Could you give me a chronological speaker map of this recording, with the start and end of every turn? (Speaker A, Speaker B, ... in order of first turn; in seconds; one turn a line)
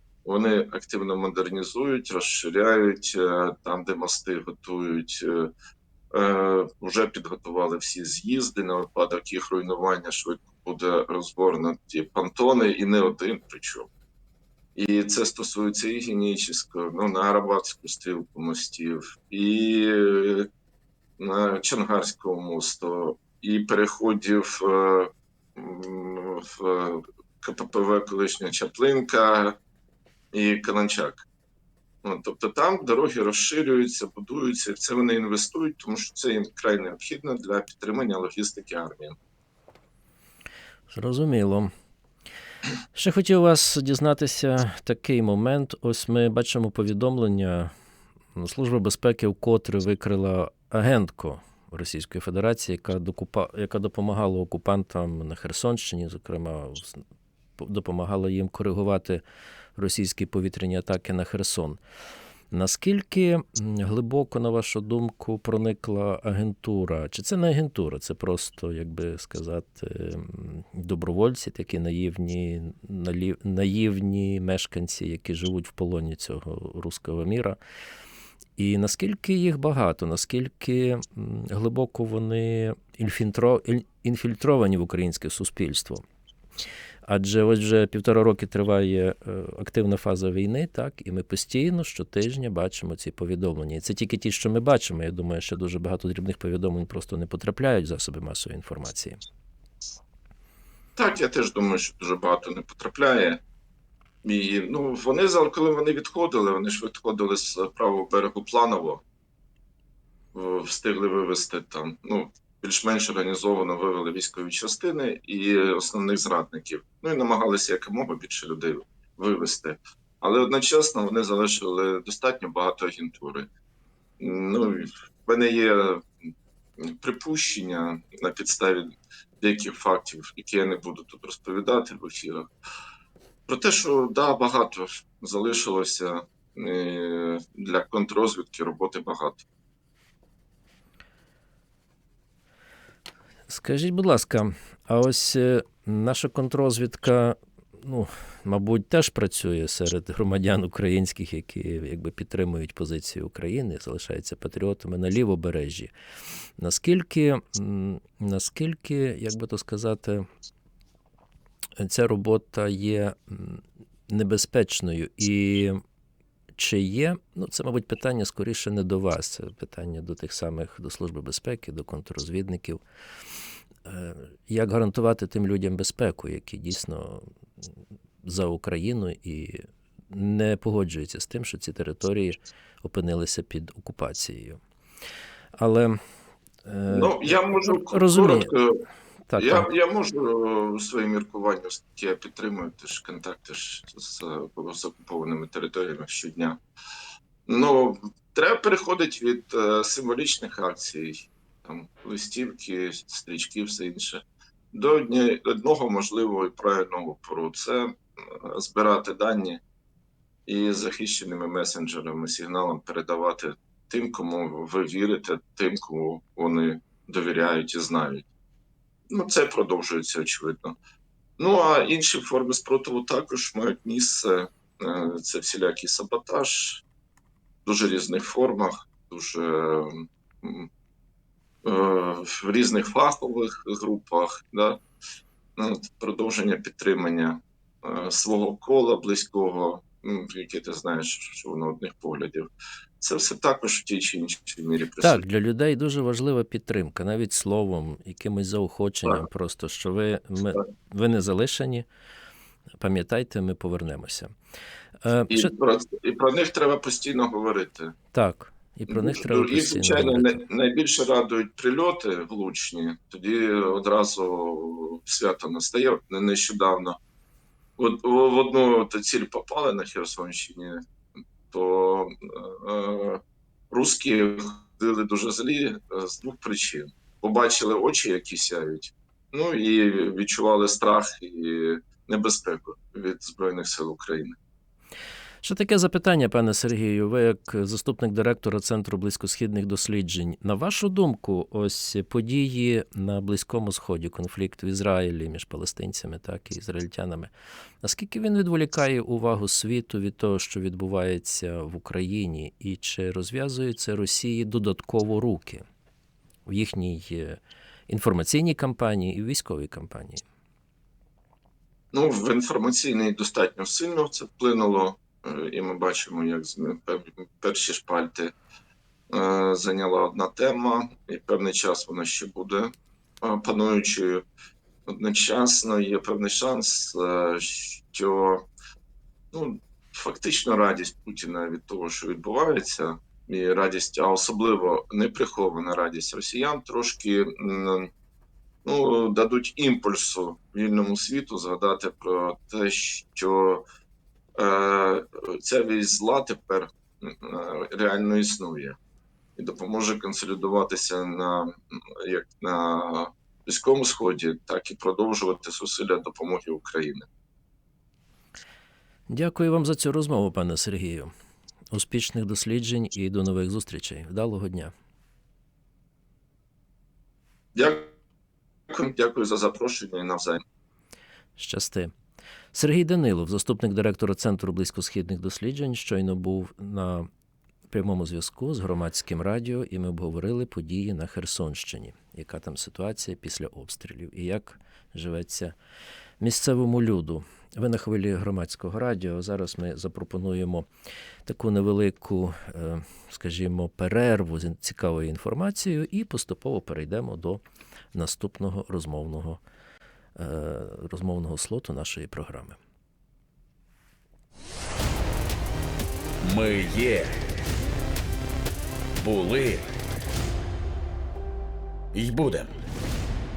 Speaker A: 0.2-5.5
Speaker A: 6.1-13.9
Speaker A: 14.8-20.5
Speaker A: 21.2-29.6
Speaker A: 30.3-31.2
Speaker A: 32.0-39.2
Speaker B: 40.9-41.7
Speaker B: 42.9-47.7
Speaker B: 48.3-57.0
Speaker B: 57.6-59.2
Speaker B: 59.8-61.8
Speaker B: 62.5-77.6
Speaker B: 78.6-86.0
Speaker B: 87.0-99.2
Speaker A: 101.0-103.4
Speaker A: 104.2-109.0
Speaker A: 110.3-123.5
Speaker A: 124.2-128.9
Speaker A: 129.4-132.5
Speaker A: 133.5-139.4
Speaker B: 143.5-155.9
Speaker B: 156.6-160.2
Speaker B: 161.8-165.8
Speaker B: 166.6-172.8
Speaker B: 173.8-177.7
Speaker B: 178.2-184.6
Speaker B: 185.6-186.0
Speaker B: 186.6-188.5
Speaker A: 186.9-188.8
Speaker B: 189.3-189.7
Speaker A: 189.3-196.6
Speaker A: 197.5-209.6
Speaker A: 210.5-218.2
Speaker A: 219.1-220.8
Speaker A: 221.4-226.8
Speaker A: 227.6-230.7
Speaker A: 231.6-234.8
Speaker A: 235.6-242.5
Speaker A: 243.0-245.2
Speaker B: 245.0-251.8
Speaker B: 252.8-254.3
Speaker B: 255.0-255.5
Speaker A: 255.3-257.9
Speaker B: 258.1-260.4
Speaker A: 258.9-266.9
Speaker A: 267.8-270.8
Speaker A: 271.5-273.2
Speaker A: 273.7-284.3
Speaker B: 285.4-305.6
Speaker B: 306.4-310.2
Speaker A: 311.9-318.3
Speaker A: 319.1-324.2
Speaker A: 324.9-328.5
Speaker A: 329.3-337.9
Speaker A: 338.6-343.6
Speaker A: 344.4-348.8
Speaker A: 349.4-357.0
Speaker B: 359.1-361.1
Speaker B: 361.7-364.7
Speaker A: 367.5-367.9
Speaker A: 368.7-370.4
Speaker B: 371.4-371.9
Speaker B: 372.5-377.1
Speaker B: 377.7-385.5
Speaker B: 386.2-390.7
Speaker B: 391.2-397.4
Speaker B: 397.9-399.4
Speaker B: 400.1-402.6
Speaker C: 406.2-407.4
Speaker C: 409.0-409.8
Speaker C: 411.9-412.6